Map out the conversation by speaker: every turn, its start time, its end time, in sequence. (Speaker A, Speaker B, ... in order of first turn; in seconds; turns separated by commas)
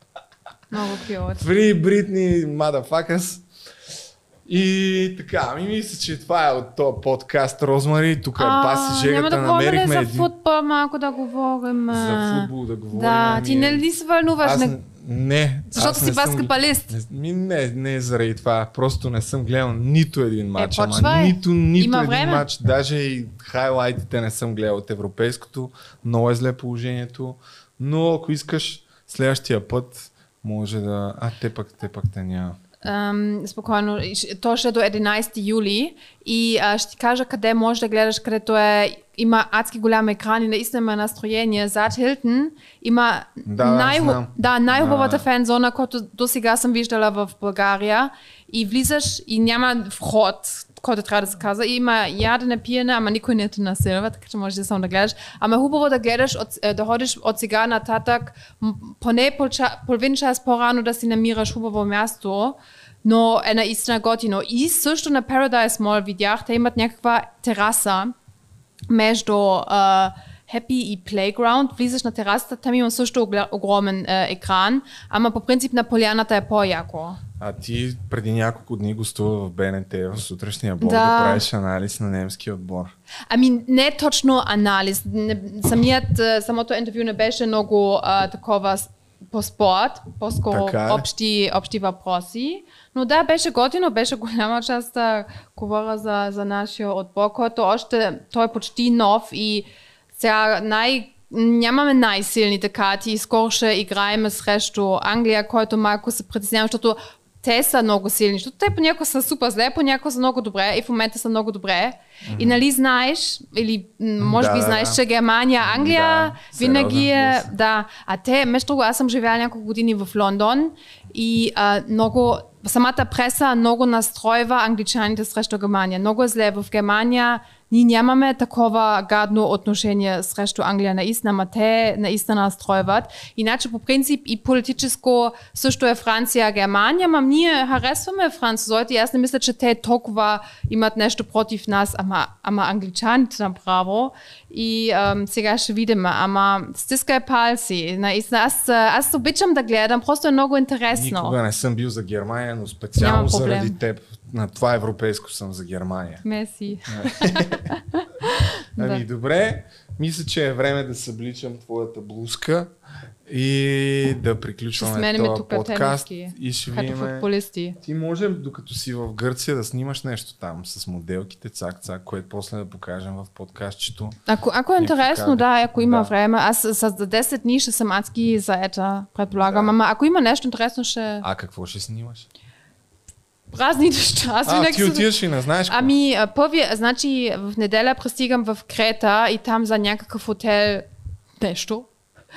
Speaker A: 0.7-1.5, Speaker B: 1.4-3.4, Speaker B: 4.5-10.3, Speaker A: 8.4-14.8, Speaker B: 11.9-13.9, Speaker B: 14.4-32.6, Speaker A: 15.7-16.9, Speaker A: 20.6-22.5, Speaker A: 32.8-68.1, Speaker B: 43.5-45.2, Speaker A: 68.9-77.2, Speaker B: 77.4-82.9, Speaker A: 80.8-81.4, Speaker A: 83.3-151.4, Speaker B: 90.5-91.0, Speaker B: 112.3-112.6, Speaker B: 114.2-115.0, Speaker B: 115.6-117.5, Speaker B: 150.9-156.2, Speaker A: 153.0-153.8, Speaker A: 156.2-159.0, Speaker B: 156.9-157.5, Speaker B: 158.8-162.7, Speaker B: 163.3-167.3, Speaker A: 164.8-167.8, Speaker B: 167.8-174.2, Speaker A: 174.3-181.3, Speaker B: 174.8-176.1, Speaker B: 179.3-179.7, Speaker B: 181.2-182.3, Speaker A: 183.5-185.1, Speaker B: 184.4-185.9, Speaker A: 185.7-190.9, Speaker A: 191.4-191.9